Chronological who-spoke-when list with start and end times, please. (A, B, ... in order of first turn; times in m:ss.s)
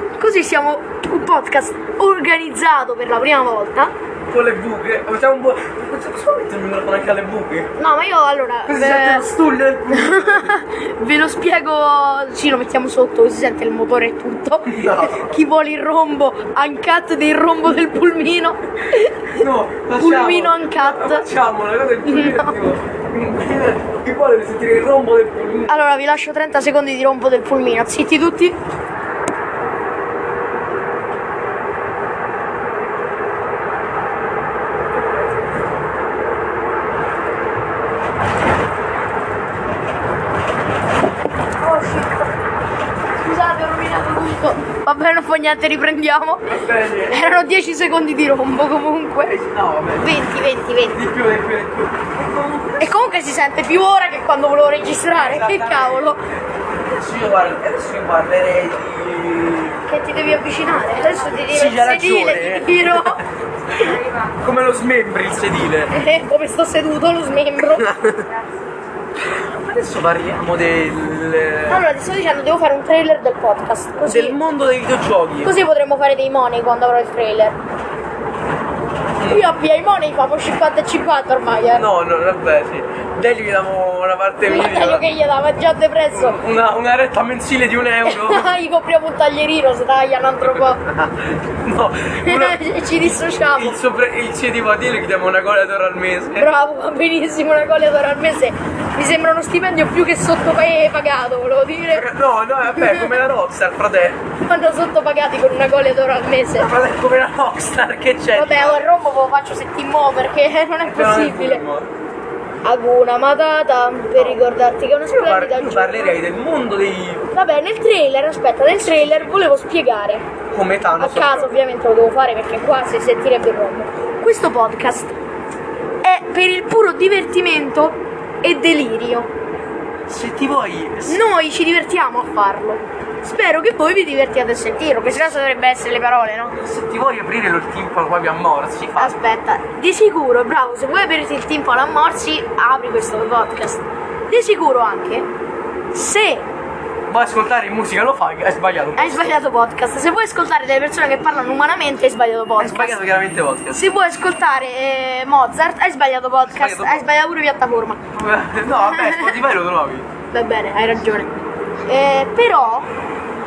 0:00.2-0:03.9 A
0:04.3-0:07.7 B
0:07.8-0:09.3 A
0:08.7-0:10.6 B
0:09.9-0:21.3 A
0:14.7-0:15.3 B
0:19.3-0:25.8 B
0:22.0-0:22.6 A
0:25.7-0:28.6 A
0:41.6-0:42.4 A
0:43.2-0:49.4 A
0:46.5-0:47.2 B
0:49.2-0:50.2 B
0:50.0-0:51.0 A
0:50.9-0:53.1 B
0:52.8-0:56.2 A
0:55.1-0:56.1 B
0:56.9-0:59.9 B
0:59.9-1:03.2 A
1:01.5-1:03.2 B
1:03.7-1:05.9 B
1:03.7-1:04.1 A
1:05.9-1:07.9 A
1:07.8-1:08.3 B
1:09.2-1:11.8 B
1:11.7-1:14.4 A
1:14.1-1:15.5 B
1:15.4-1:17.6 A
1:19.2-1:19.6 B
1:19.2-1:21.9 A
1:21.7-1:25.0 B
1:24.4-1:26.4 A
1:26.2-1:28.6 B
1:28.0-1:30.8 A
1:30.7-1:36.5 B
1:32.2-1:33.8 A
1:36.4-1:42.1 A
1:41.9-1:44.2 B
1:42.7-1:43.2 A
1:44.4-1:46.7 A
1:46.6-1:48.9 B
1:48.4-1:51.6 A
1:50.8-1:51.9 B
1:52.6-1:56.2 A
1:55.1-1:57.3 B
1:57.3-2:00.3 A
1:58.8-1:59.4 B
2:00.5-2:01.5 B
2:01.0-2:05.2 A
2:06.0-2:09.3 A
2:10.1-2:11.2 B
2:11.1-2:16.6 A
2:16.6-2:19.2 B
2:19.0-2:25.3 A
2:25.9-2:26.5 A
2:27.1-2:29.4 B
2:29.0-2:33.0 A
2:32.6-2:33.9 B
2:33.7-2:38.0 A
2:36.5-2:37.0 B
2:38.1-2:40.1 B
2:38.7-2:39.4 A
2:40.3-2:41.3 A
2:41.9-2:42.9 A